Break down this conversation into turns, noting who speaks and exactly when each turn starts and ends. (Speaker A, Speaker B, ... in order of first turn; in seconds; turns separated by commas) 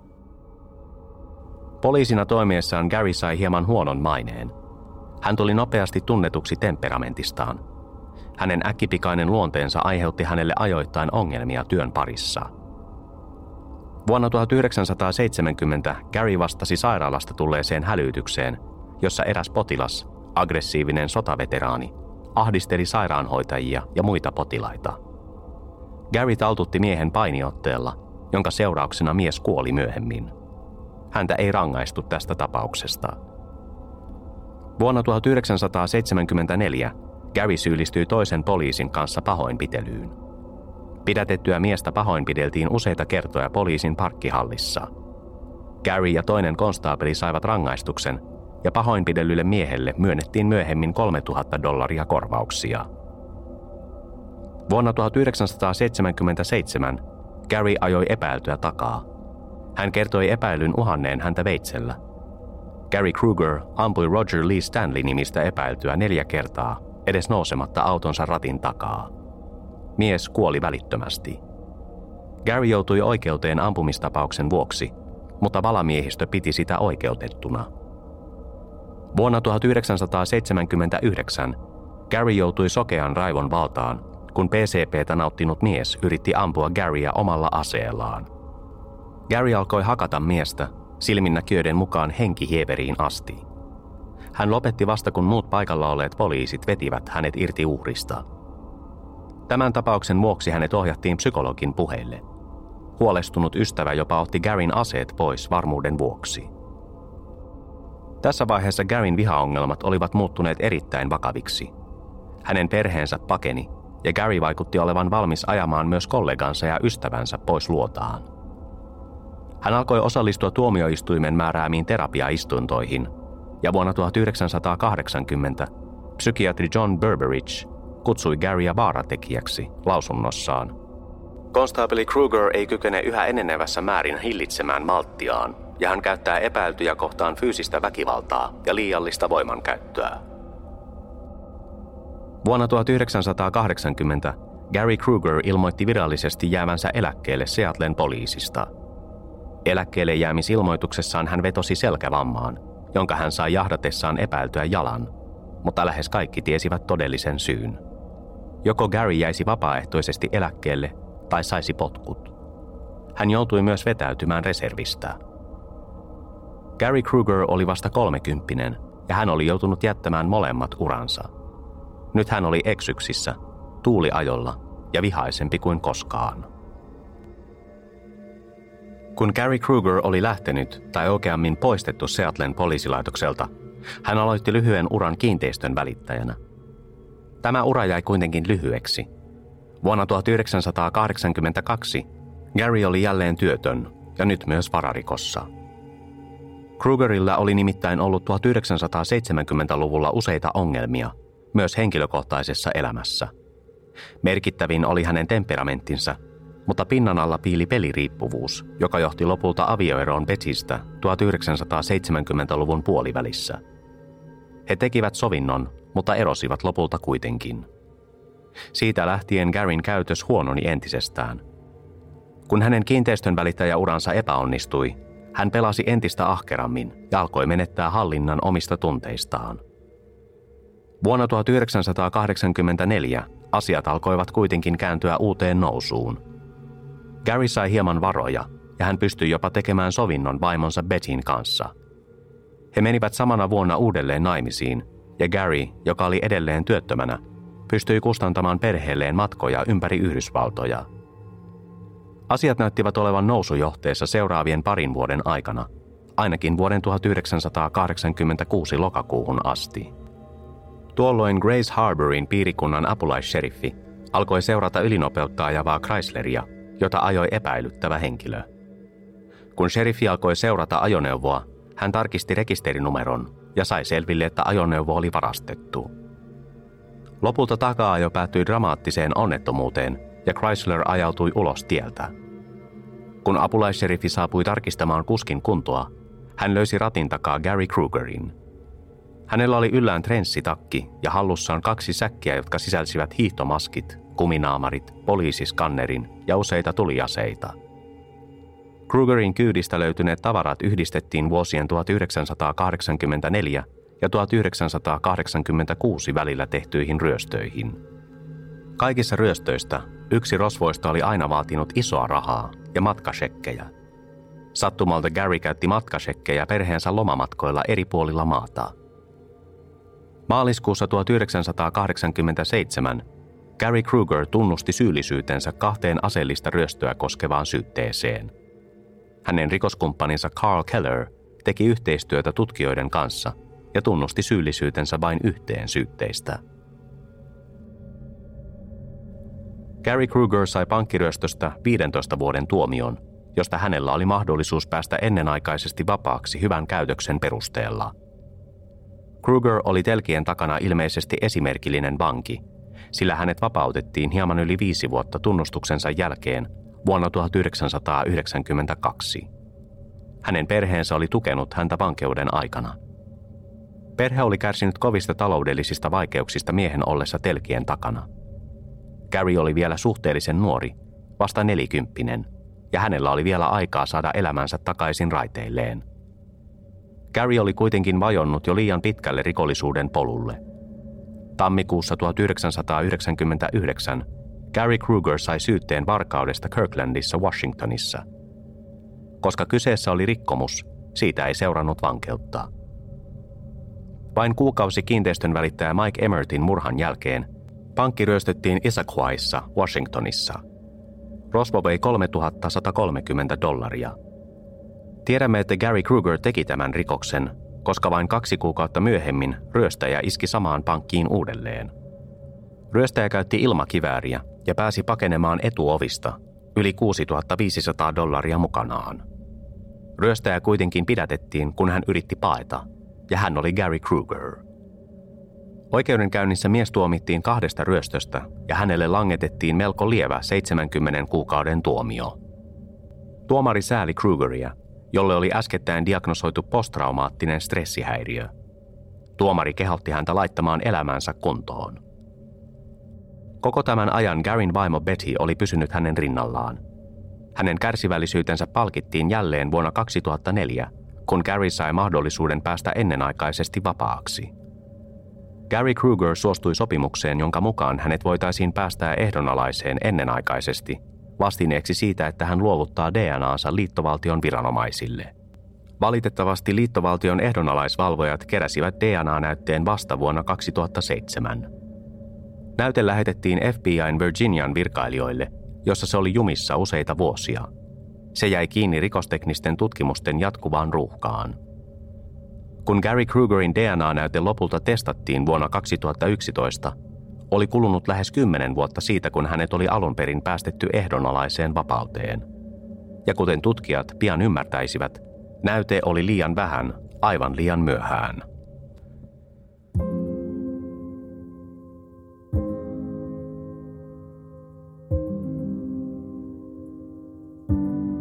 Speaker A: 1.8-4.5, Speaker A: 5.2-7.6, Speaker A: 8.4-12.5, Speaker A: 14.1-25.0, Speaker A: 26.1-30.3, Speaker A: 31.1-33.2, Speaker A: 34.8-40.1, Speaker A: 41.0-44.9, Speaker A: 45.8-52.9, Speaker A: 54.7-59.0, Speaker A: 59.8-62.0, Speaker A: 62.9-69.1, Speaker A: 70.0-71.4, Speaker A: 72.4-77.7, Speaker A: 79.1-81.6, Speaker A: 82.1-88.3, Speaker A: 89.3-93.4, Speaker A: 94.3-98.2, Speaker A: 99.5-102.2, Speaker A: 103.0-106.5, Speaker A: 108.2-111.7, Speaker A: 112.4-118.2, Speaker A: 119.6-123.1, Speaker A: 123.6-130.7, Speaker A: 131.5-140.2, Speaker A: 142.4-148.7, Speaker A: 149.6-155.1, Speaker A: 155.6-157.8, Speaker A: 158.6-162.3, Speaker A: 163.2-165.2, Speaker A: 166.8-171.3, Speaker A: 172.1-176.5, Speaker A: 179.2-183.5, Speaker A: 184.0-186.4, Speaker A: 187.4-189.1, Speaker A: 189.8-195.5, Speaker A: 196.8-203.3, Speaker A: 204.2-213.6, Speaker A: 214.7-217.7, Speaker A: 218.7-221.4, Speaker A: 222.5-229.6, Speaker A: 231.0-236.2, Speaker A: 237.2-241.7, Speaker A: 242.7-250.9, Speaker A: 252.3-259.9, Speaker A: 260.9-268.4, Speaker A: 269.6-275.9, Speaker A: 277.2-282.1, Speaker A: 283.2-288.3, Speaker A: 289.3-297.6, Speaker A: 298.9-307.8, Speaker A: 308.8-313.7, Speaker A: 314.5-318.7, Speaker A: 320.3-323.0, Speaker A: 323.6-328.3, Speaker A: 329.2-336.4, Speaker A: 339.8-347.9, Speaker A: 349.2-352.4, Speaker A: 352.9-359.3, Speaker A: 360.2-362.8, Speaker A: 364.0-368.1, Speaker A: 369.1-375.8, Speaker A: 377.1-380.4, Speaker A: 381.4-388.0, Speaker A: 389.2-392.5, Speaker A: 394.1-400.4, Speaker A: 401.3-403.9, Speaker A: 405.0-411.7, Speaker A: 412.7-419.0, Speaker A: 420.0-424.4, Speaker A: 425.7-432.1, Speaker A: 433.3-438.3, Speaker A: 439.2-441.8, Speaker A: 443.4-446.6, Speaker A: 447.3-454.3, Speaker A: 455.5-465.1, Speaker A: 465.8-471.5, Speaker A: 472.6-477.5, Speaker A: 478.1-481.4, Speaker A: 482.6-486.7, Speaker A: 487.3-492.2, Speaker A: 493.0-498.2